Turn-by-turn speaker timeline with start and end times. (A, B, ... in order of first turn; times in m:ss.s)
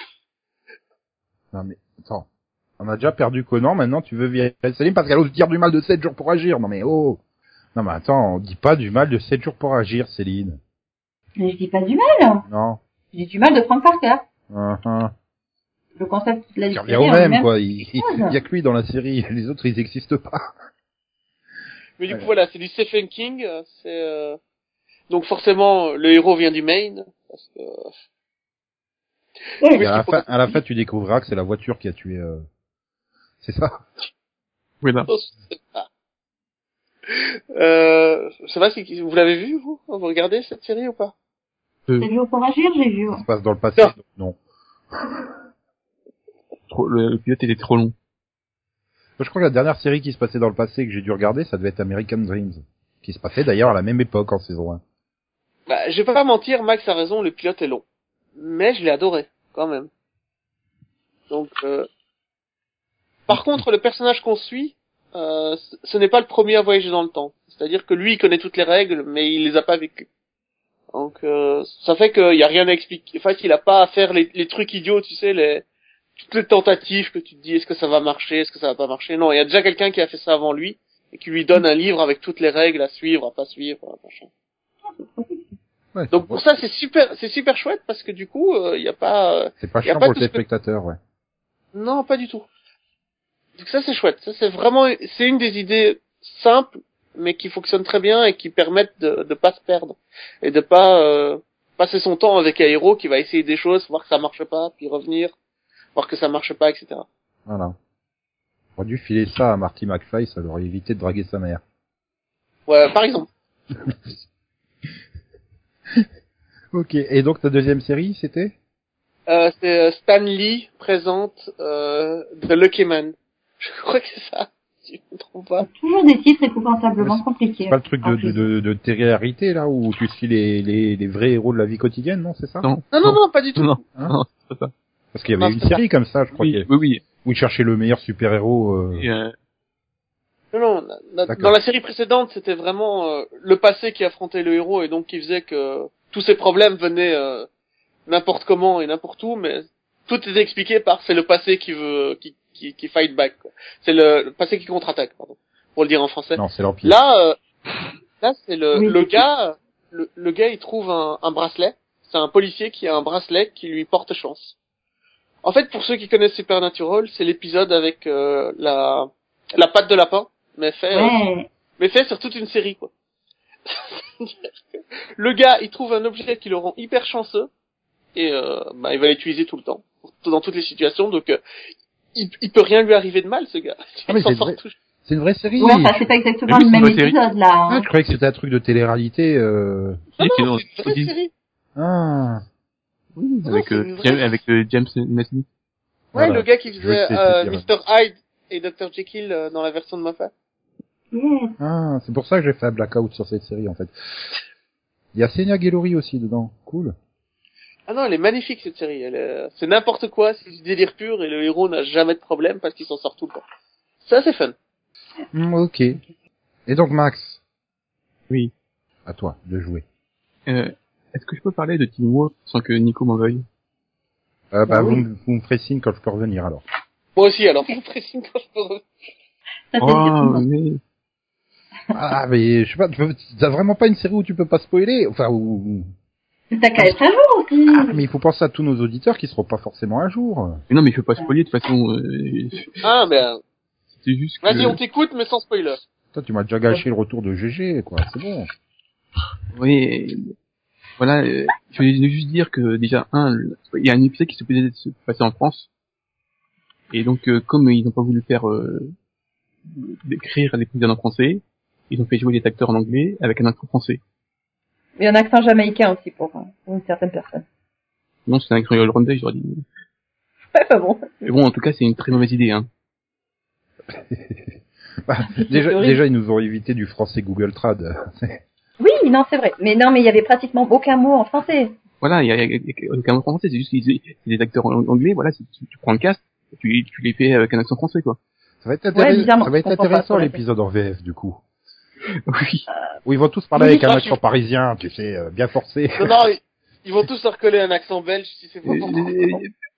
0:01.5-0:02.3 A
0:02.8-0:07.2 A
0:07.8-0:10.6 A
0:11.4-0:12.4 B
0:12.5-0:12.8 A
0:13.1-0:14.2 B
0:14.5-0:15.1 A
0:16.0-0:18.4 B
0:16.7-0:20.5 A
0:22.0-0:24.4 C
0:25.1-0:27.9 C
0:29.6-0:29.9 B
0:29.7-0:30.5 C
0:29.8-0:32.4 A
0:33.4-0:33.8 A
0:34.8-0:35.1 D
0:35.1-0:35.9 C
0:37.1-0:41.1 C
0:42.0-0:43.2 B
0:43.1-0:44.4 A
0:46.7-0:47.9 D
0:49.2-0:54.8 A
0:55.7-0:57.8 C
0:58.4-0:59.9 C
1:01.3-1:01.9 C
1:03.3-1:10.1 C
1:03.3-1:03.6 A
1:10.9-1:15.6 C
1:16.2-1:24.3 C
1:24.9-1:25.5 B
1:25.9-1:26.4 A
1:26.1-1:30.4 C
1:29.6-1:31.0 A
1:31.7-1:32.5 C
1:33.6-1:45.3 C
1:46.0-1:47.1 C
1:47.5-1:47.8 A
1:48.8-1:51.6 A
1:52.7-1:53.3 C
1:56.7-1:58.6 A
1:59.3-2:05.7 C
2:05.6-2:08.4 B
2:07.0-2:12.7 A
2:12.6-2:14.7 D
2:12.9-2:13.8 C
2:15.1-2:16.7 A
2:15.4-2:15.8 C
2:16.4-2:17.0 D
2:17.2-2:19.1 A
2:19.0-2:19.3 D
2:20.5-2:27.5 C
2:21.3-2:21.5 A
2:28.1-2:37.4 C
2:36.4-2:37.0 A
2:38.2-2:44.6 C
2:38.7-2:39.2 B
2:45.4-2:51.2 C
2:50.9-2:51.5 B
2:51.8-2:52.9 C
2:53.7-2:54.5 C
2:55.2-2:57.5 C
2:58.2-3:01.4 C
3:02.2-3:04.8 C
3:04.1-3:06.0 A
3:05.6-3:07.9 B
3:06.5-3:07.2 D
3:07.7-3:10.0 A
3:10.2-3:11.1 D
3:10.2-3:11.3 C
3:11.8-3:12.4 A
3:13.2-3:15.5 D
3:13.5-3:14.4 C
3:16.1-3:17.6 A
3:16.2-3:20.3 C
3:21.1-3:21.6 B
3:21.6-3:23.9 A
3:25.2-3:27.0 A
3:27.9-3:33.4 C
3:34.0-3:34.6 C
3:35.3-3:36.0 A
3:36.7-3:37.4 A
3:39.1-3:39.8 A
3:40.5-3:43.4 D
3:44.5-3:46.6 A
3:44.7-3:45.0 B
3:47.2-3:48.8 C
3:49.7-3:50.4 B
3:49.8-3:50.8 D
3:51.9-3:55.9 A
3:56.5-3:58.0 B
3:57.7-4:00.6 A
4:00.7-4:02.8 D
4:02.8-4:03.4 C
4:04.0-4:04.8 D
4:04.4-4:05.8 C
4:06.1-4:08.5 A
4:09.5-4:10.3 D
4:11.0-4:15.7 D
4:16.9-4:18.9 D
4:19.7-4:24.0 D
4:25.0-4:27.4 B
4:28.3-4:29.6 D
4:30.5-4:31.1 B
4:31.2-4:32.7 D
4:33.9-4:38.4 A
4:35.4-4:36.0 B
4:38.8-4:41.8 B
4:42.0-4:48.2 D
4:48.6-4:51.4 A
4:48.9-4:50.4 B
4:52.1-4:52.7 D
4:53.1-4:56.2 A
4:53.6-4:54.2 C
4:56.0-4:59.4 C
4:58.7-4:59.5 D